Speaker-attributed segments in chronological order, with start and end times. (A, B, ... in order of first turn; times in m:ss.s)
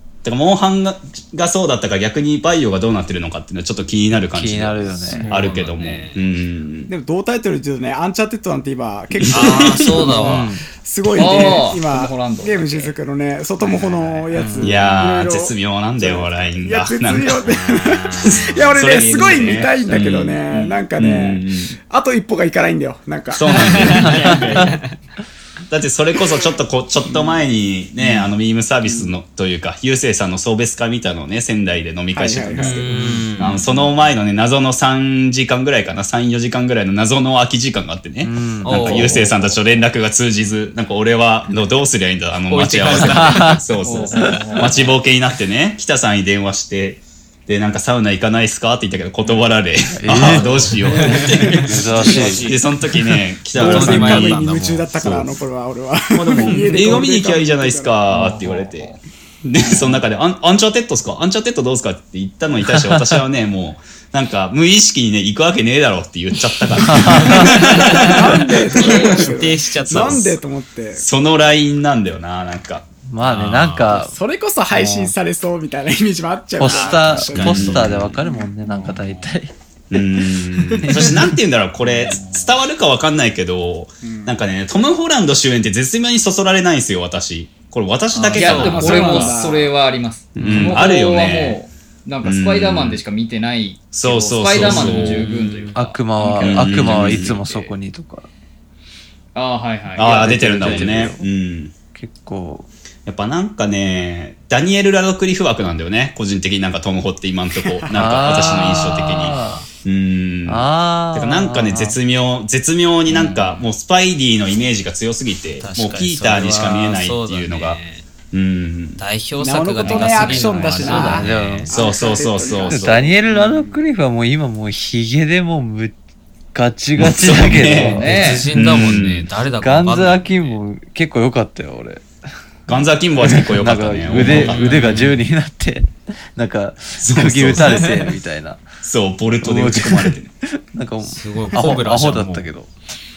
0:00.2-0:06.9 A
0:04.3-0:05.4 B
0:05.1-0:06.2 C
0:06.9-0:24.5 D
0:09.2-0:09.9 A
0:09.3-0:10.5 C
0:10.2-0:10.6 B
0:11.1-0:12.9 E
0:13.6-0:14.7 C
0:14.3-0:14.7 B
0:14.6-0:17.4 A
0:17.3-0:20.1 C
0:18.3-0:21.8 A
0:23.3-0:24.8 A
0:23.5-0:24.9 C
0:25.7-0:54.4 A
0:27.1-0:27.4 D
0:28.8-0:29.1 D
0:32.1-0:32.8 D
0:32.6-0:33.8 C
0:32.9-0:33.3 B
0:38.2-0:38.9 B
0:38.6-0:39.4 C
0:38.9-0:39.2 E
0:42.5-0:43.6 C
0:43.0-0:43.6 B
0:43.8-0:44.9 E
0:49.9-0:50.5 B
0:50.4-0:52.5 C
0:50.8-0:51.3 D
0:51.6-0:52.4 B
0:53.5-0:54.9 C
0:53.5-0:58.0 D
0:55.0-0:55.3 A
0:56.2-0:57.0 C
0:56.5-1:08.4 A
0:58.1-0:59.0 E
0:59.6-1:00.0 E
1:02.7-1:03.0 B
1:06.8-1:07.5 B
1:07.4-1:11.1 D
1:07.8-1:10.4 C
1:08.7-1:09.4 E
1:09.9-1:10.2 A
1:11.0-1:12.9 A
1:13.1-1:14.1 B
1:13.2-1:14.1 C
1:14.0-1:18.0 D
1:14.7-1:15.1 B
1:16.6-1:19.5 B
1:16.6-1:17.9 C
1:17.4-1:18.1 A
1:18.8-1:19.1 E
1:19.9-1:29.3 A
1:20.8-1:21.1 B
1:21.8-1:22.5 E
1:24.0-1:24.4 D
1:28.3-1:37.7 E
1:28.3-1:29.7 D
1:30.4-1:31.6 A
1:30.4-1:30.8 B
1:32.2-1:33.0 A
1:33.9-1:35.3 A
1:34.6-1:35.8 C
1:35.7-1:38.3 B
1:36.4-1:37.4 A
1:39.3-1:41.1 E
1:40.0-1:41.7 A
1:40.0-1:41.3 B
1:41.9-1:42.7 B
1:43.0-1:59.0 A
1:47.9-1:49.6 B
1:49.3-1:49.6 C
1:50.4-1:52.0 B
1:53.1-1:53.5 E
1:55.6-1:58.1 C
1:59.0-2:01.7 C
1:59.4-2:03.8 D
2:00.5-2:01.0 E
2:00.8-2:01.7 B
2:01.7-2:03.1 A
2:02.7-2:05.9 B
2:06.5-2:08.4 B
2:07.0-2:09.3 A
2:07.7-2:08.5 E
2:07.9-2:10.6 C
2:09.6-2:12.0 B
2:12.7-2:14.8 A
2:13.2-2:18.6 B
2:14.1-2:15.2 C
2:17.0-2:17.9 A
2:18.8-2:20.3 A
2:19.4-2:20.2 B
2:20.7-2:22.7 B
2:21.1-2:22.5 C